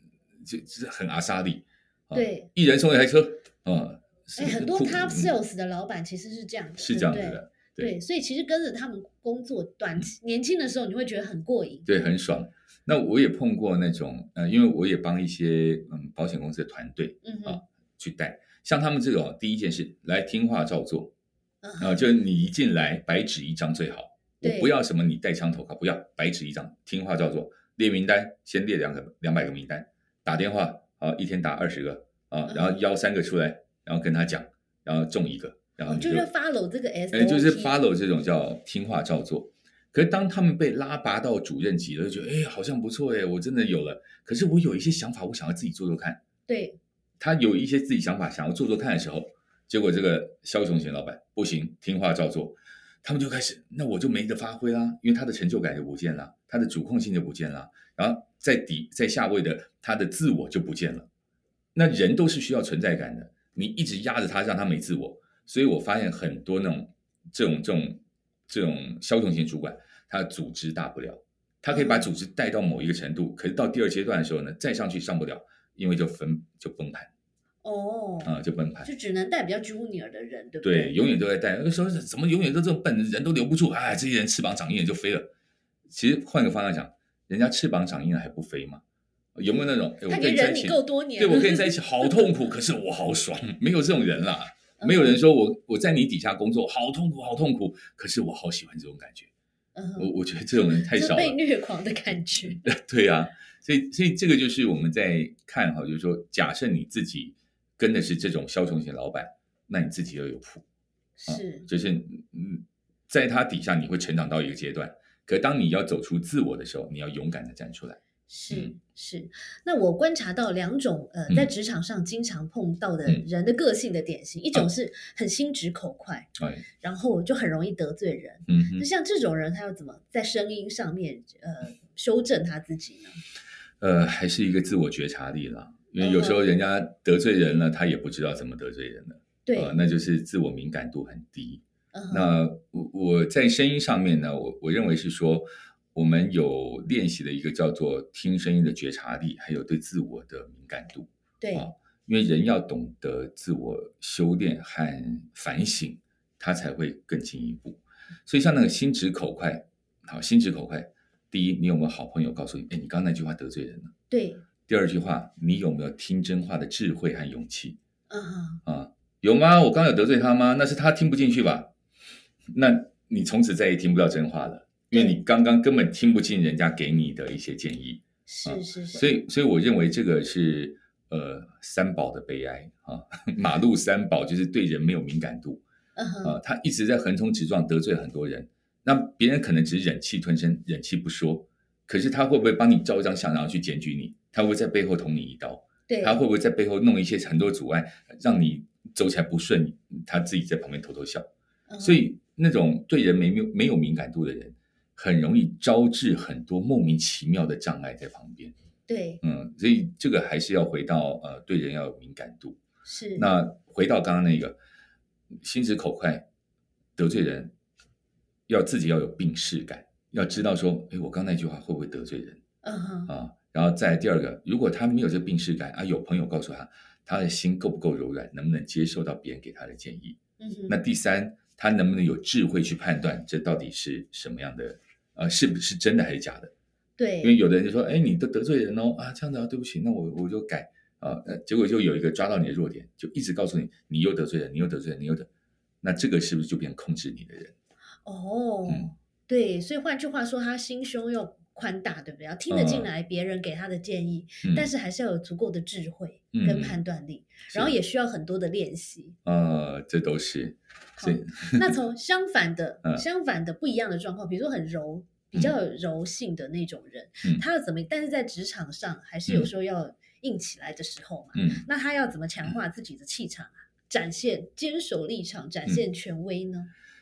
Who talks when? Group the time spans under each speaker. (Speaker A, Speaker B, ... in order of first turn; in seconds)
Speaker A: 0.4-5.4, 6.8-7.9, 11.9-21.1, 21.8-36.3, 37.1-46.2, 47.2-61.1, 61.8-77.1, 78.2-78.9, 80.6-85.3, 85.9-88.8, 89.3-99.3, 100.0-101.4, 102.6-110.7, 111.3-118.7, 126.4-126.7, 128.5-128.9, 133.8-163.9, 164.7-167.8, 168.7-171.7, 172.5-185.6, 186.2-201.3, 201.8-208.5, 209.2-212.6, 213.2-214.6, 215.4-216.3, 217.0-217.5, 218.5-222.4, 223.1-236.5, 237.2-245.3, 245.8-247.5, 248.7-248.9, 252.5-252.9, 254.4-254.7, 256.3-256.8, 257.5-257.8, 259.2-261.7, 271.4-271.6
Speaker B: 2.1-2.5, 4.4-11.9, 17.2-17.6, 21.6-22.1, 24.4-24.7, 32.5-32.8, 35.9-37.8, 46.5-46.8, 71.7-72.1, 77.6-81.0, 89.5-92.1, 94.8-95.2, 99.8-102.7, 111.2-111.7, 118.3-133.2, 136.0-136.5, 139.4-139.8, 141.9-142.3, 151.4-151.7, 164.1-164.4, 168.1-168.6, 174.9-175.2, 178.3-179.1, 185.9-186.4, 195.9-196.2, 201.7-202.0, 208.9-209.2, 212.8-213.3, 222.6-223.1, 230.4-230.8, 237.0-237.4, 248.0-259.2, 261.0-276.7